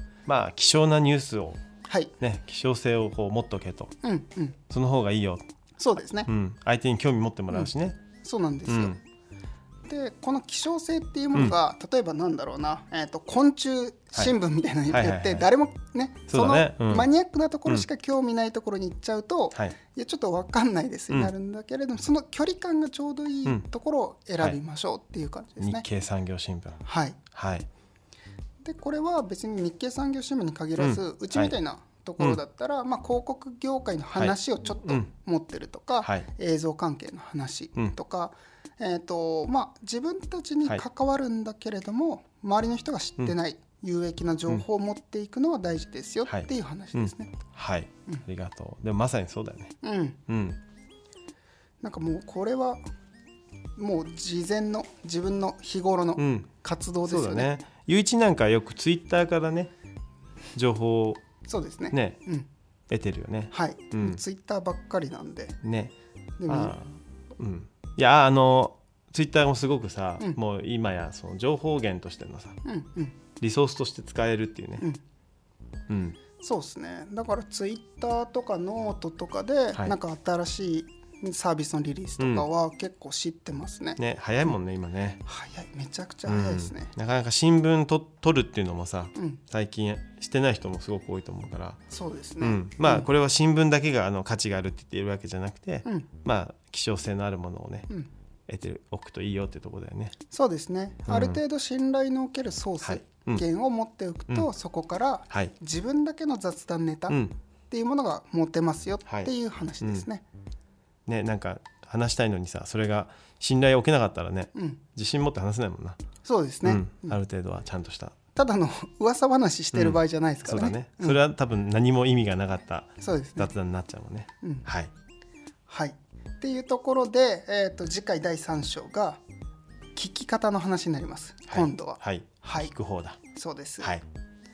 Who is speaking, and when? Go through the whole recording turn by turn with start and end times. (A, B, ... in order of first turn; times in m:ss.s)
0:00.2-0:01.6 A
0:01.8-0:02.1 B
0:02.2-0:03.9 A
0:04.0-0:04.6 B
0:04.7-0:05.4 A
0:05.8-0:06.3 B
0:06.2-0:08.0 A
0:08.2-0:09.0 B
0:08.7-0:09.0 A
0:09.9-0:25.8 B
0:14.9-0:15.5 A
0:16.3-0:17.1 A
0:25.6-0:26.8 A
0:26.8-0:27.2 B
0:27.3-0:27.7 A
0:28.6-0:47.3 B
0:30.8-0:31.5 A
0:34.1-0:35.1 A
0:36.0-0:36.3 A
0:46.2-0:49.8 A
0:49.8-0:50.2 B
0:50.3-0:50.6 A
0:51.8-0:52.8 B
0:53.8-0:57.5 B
0:56.2-0:56.5 A
0:57.0-0:59.7 A
1:00.5-1:01.2 A
1:01.5-1:02.5 B
1:01.9-1:02.2 A
1:02.9-1:04.2 A
1:03.5-1:05.6 B
1:05.6-1:05.9 A
1:06.4-1:06.8 B
1:06.5-1:12.6 A
1:12.6-1:13.2 B
1:13.4-1:14.9 A
1:15.9-1:16.2 A
1:16.4-1:24.0 B
1:22.2-1:22.5 A
1:24.0-1:25.2 A
1:25.2-1:26.9 B
1:26.2-1:31.8 A
1:29.2-1:29.4 B
1:31.9-1:33.0 B
1:32.4-1:37.9 A
1:38.5-1:40.1 A
1:40.3-1:47.2 B
1:41.1-1:41.4 A
1:42.8-1:43.4 A
1:47.1-1:47.3 A
1:47.7-1:50.2 B
1:49.1-1:50.0 A
1:51.1-1:56.0 A
1:54.5-1:54.8 B
1:56.2-1:57.2 B
1:56.6-1:58.1 A
1:58.3-2:01.2 B
1:59.7-2:04.9 A
2:03.0-2:03.5 B
2:05.7-2:09.2 B
2:10.0-2:12.7 B
2:11.5-2:13.2 A
2:13.3-2:14.0 B